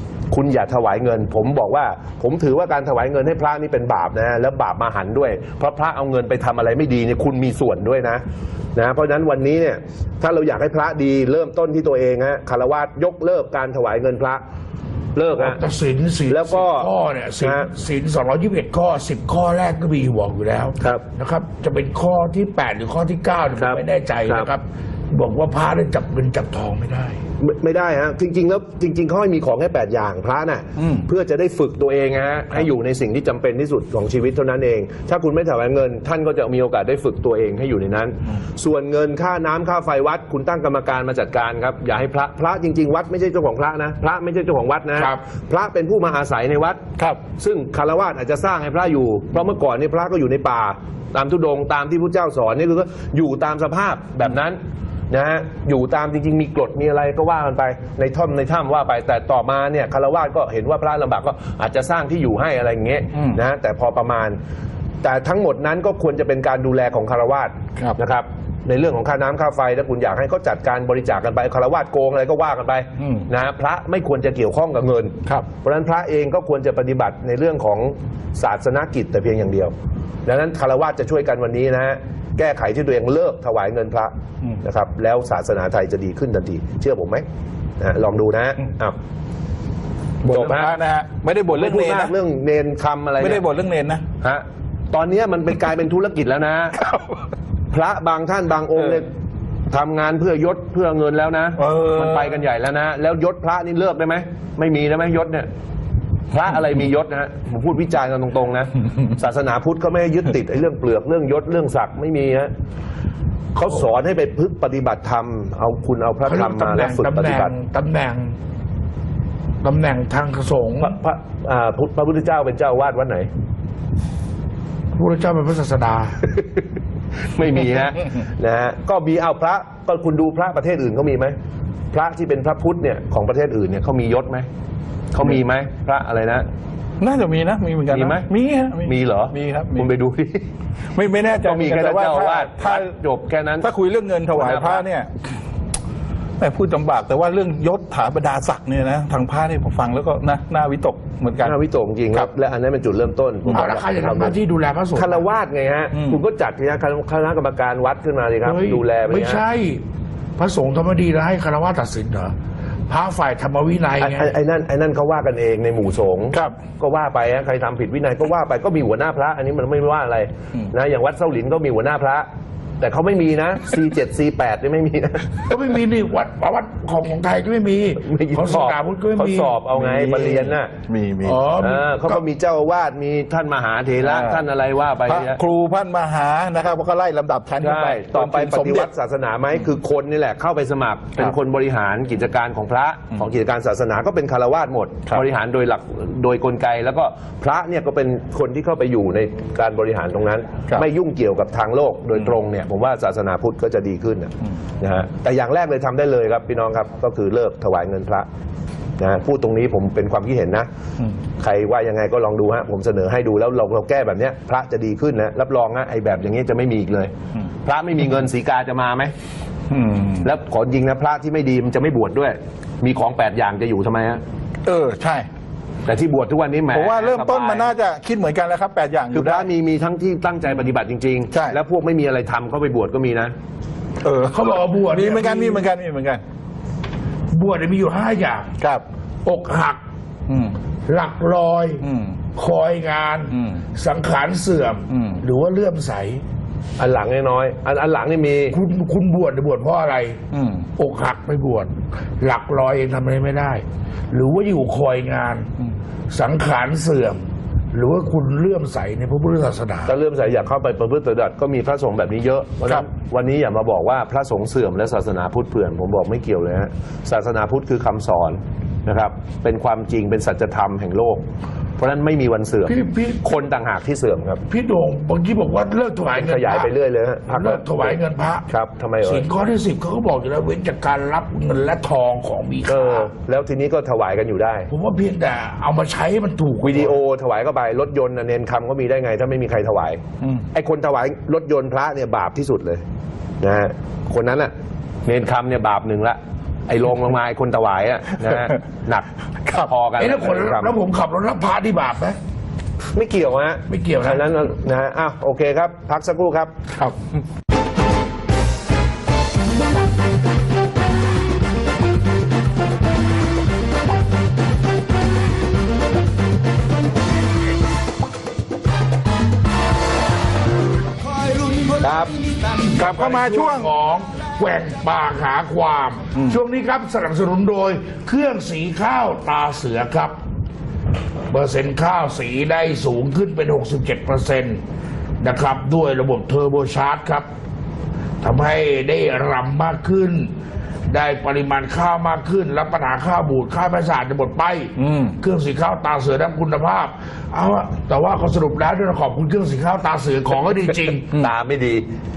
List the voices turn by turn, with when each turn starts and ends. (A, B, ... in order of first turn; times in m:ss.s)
0:00.3-0:08.2 A
0:08.7-0:14.4 A
0:15.1-0:15.6 A
0:15.4-0:27.1 B
0:16.3-0:16.9 A
0:17.4-0:17.7 A
0:20.8-0:21.0 A
0:23.6-0:24.5 A
0:27.4-0:46.8 A
0:30.8-0:31.0 C
0:47.3-0:54.6 A
0:55.1-1:04.4 A
1:03.1-1:03.4 C
1:05.0-1:19.7 A
1:13.0-1:13.3 C
1:20.2-1:27.2 A
1:27.8-1:29.0 A
1:30.2-1:32.1 C
1:30.3-1:30.7 A
1:31.5-1:33.4 A
1:33.2-1:34.0 C
1:34.2-1:36.8 A
1:37.7-1:39.1 A
1:39.7-1:45.5 A
1:41.6-1:42.3 C
1:46.3-1:52.5 A
1:53.5-1:57.5 A
1:56.2-1:58.3 B
1:59.6-2:01.0 B
2:00.8-2:03.3 A
2:05.0-2:06.2 B
2:06.2-2:06.6 A
2:07.3-2:11.3 A
2:11.9-2:14.5 A
2:15.1-2:16.5 A
2:17.0-2:19.9 C
2:17.9-2:18.3 A
2:18.8-2:20.4 A
2:20.9-2:22.9 C
2:21.4-2:23.7 A
2:23.6-2:25.1 C
2:24.3-2:24.8 A
2:26.4-2:31.5 C
2:31.4-2:34.4 A
2:33.5-2:35.2 B
2:34.9-2:39.4 A
2:35.9-2:36.2 C
2:38.4-2:39.8 B
2:40.4-2:42.3 B
2:42.9-2:44.3 B
2:44.0-2:52.3 A
2:52.8-2:55.5 A
2:55.5-2:59.6 B
2:58.0-3:00.7 A
2:59.8-3:01.4 C
3:01.2-3:02.2 B
3:01.6-3:05.4 A
3:04.0-3:04.4 C
3:05.1-3:08.9 C
3:07.6-3:28.3 A
3:29.0-3:30.7 A
3:31.4-3:37.1 A
3:37.6-3:39.1 A
3:39.7-3:40.3 C
3:40.2-3:44.2 A
3:44.7-3:45.3 C
3:45.8-3:47.7 A
3:46.7-3:49.5 C
3:49.1-3:53.3 A
3:54.0-3:56.2 C
3:54.3-3:55.7 B
3:57.3-3:58.5 B
3:59.2-3:59.8 B
4:00.3-4:00.6 C
4:00.9-4:01.8 B
4:01.8-4:02.2 C
4:02.4-4:06.2 B
4:03.3-4:03.6 C
4:04.9-4:05.2 C
4:06.8-4:08.6 A
4:08.5-4:10.2 B
4:10.3-4:10.7 C
4:10.8-4:15.5 B
4:16.1-4:17.2 B
4:17.7-4:19.9 B
4:19.8-4:31.2 A
4:31.8-4:34.4 A
4:32.6-4:33.2 B
4:34.5-4:36.7 B
4:36.1-4:39.2 A
4:37.3-4:38.5 B
4:39.0-4:43.1 B
4:42.6-4:44.7 A
4:44.7-4:47.0 B
4:46.6-4:50.0 A
4:50.5-4:52.8 A
4:53.4-4:54.5 A
4:55.0-5:00.7 A
5:00.0-5:02.2 B
5:02.9-5:06.5 A
5:03.7-5:04.2 B
5:21.8-5:22.3 A
5:22.7-5:23.7 C
5:22.7-5:30.2 B
5:31.3-5:34.6 B
5:35.2-5:37.2 B
5:38.2-5:40.3 B
5:40.9-5:51.1 B
5:44.8-5:45.2 C
5:51.1-5:51.8 A